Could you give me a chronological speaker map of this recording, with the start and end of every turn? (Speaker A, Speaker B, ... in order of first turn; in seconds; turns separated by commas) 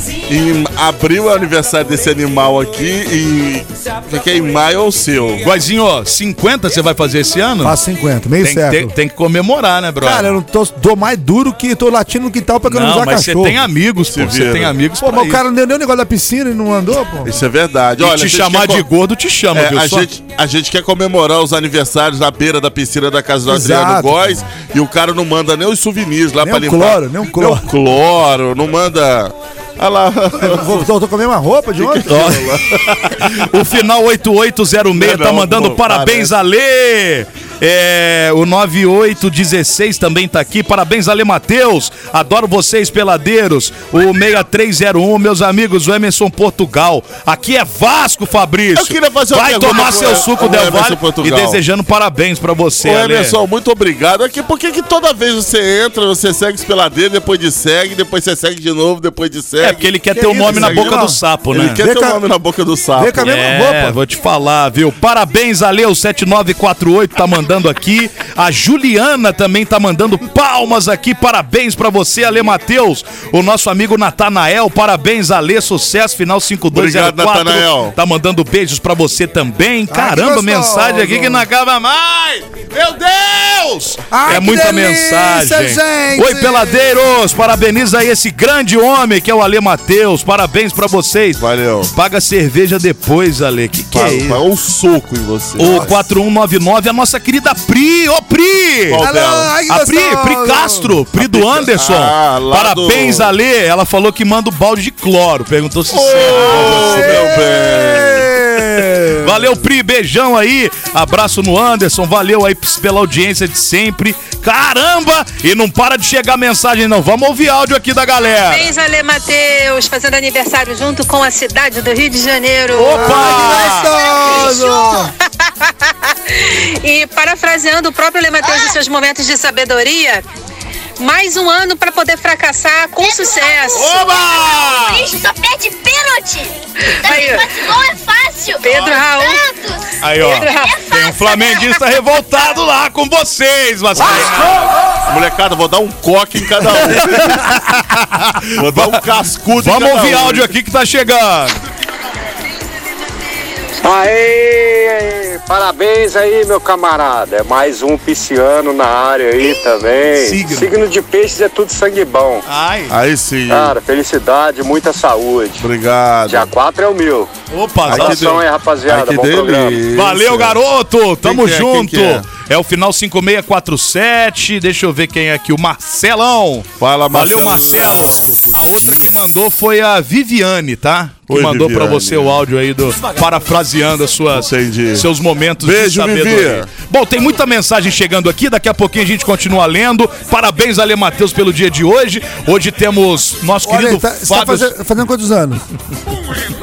Speaker A: 0.3-5.4, Speaker B: 5.4-7.8, Speaker C: 7.6-8.9, Speaker B: 8.4-10.3, Speaker C: 10.0-13.6, Speaker B: 12.7-15.4, Speaker A: 14.1-14.8, Speaker C: 15.0-17.3, Speaker A: 17.2-18.9, Speaker B: 18.0-20.1, Speaker A: 19.5-30.8, Speaker C: 23.4-24.4, Speaker C: 26.4-27.7, Speaker C: 30.4-32.4, Speaker A: 31.8-33.3, Speaker B: 32.1-53.4, Speaker A: 34.9-36.4, Speaker A: 48.8-51.6, Speaker A: 52.8-59.9, Speaker B: 59.6-61.8, Speaker C: 60.1-61.2, Speaker A: 60.4-63.2, Speaker C: 61.8-62.2, Speaker C: 63.0-64.0, Speaker B: 63.2-94.4, Speaker A: 76.7-78.0, Speaker C: 79.9-81.5, Speaker C: 84.1-86.9, Speaker A: 91.4-91.9, Speaker A: 93.9-95.9, Speaker B: 95.6-99.1, Speaker A: 98.9-99.5, Speaker C: 99.0-101.0, Speaker B: 99.7-107.3, Speaker A: 101.2-103.3, Speaker A: 105.9-108.3, Speaker C: 106.1-109.6, Speaker B: 109.2-118.7, Speaker D: 118.5-123.4, Speaker B: 122.7-124.0, Speaker C: 122.9-125.1, Speaker E: 124.1-124.5, Speaker D: 124.2-124.6, Speaker D: 126.3-130.2, Speaker E: 128.5-128.7, Speaker D: 131.0-134.0, Speaker E: 133.0-141.7, Speaker B: 133.7-135.1, Speaker D: 136.9-137.8, Speaker D: 138.6-139.4, Speaker B: 140.0-144.7, Speaker D: 140.2-140.8, Speaker A: 145.1-147.5, Speaker B: 146.8-151.6, Speaker A: 148.6-150.5, Speaker F: 153.8-162.4, Speaker B: 160.1-160.7, Speaker B: 162.4-162.9, Speaker A: 162.9-163.8, Speaker F: 163.5-165.6, Speaker A: 165.6-166.5, Speaker F: 166.3-167.3, Speaker B: 167.5-168.4, Speaker A: 167.8-170.6, Speaker F: 167.9-169.8, Speaker B: 169.9-194.7, Speaker A: 171.2-172.2, Speaker A: 176.8-178.4, Speaker C: 177.7-179.2, Speaker A: 181.3-182.4, Speaker A: 184.3-185.1, Speaker A: 185.6-186.7, Speaker C: 193.6-195.6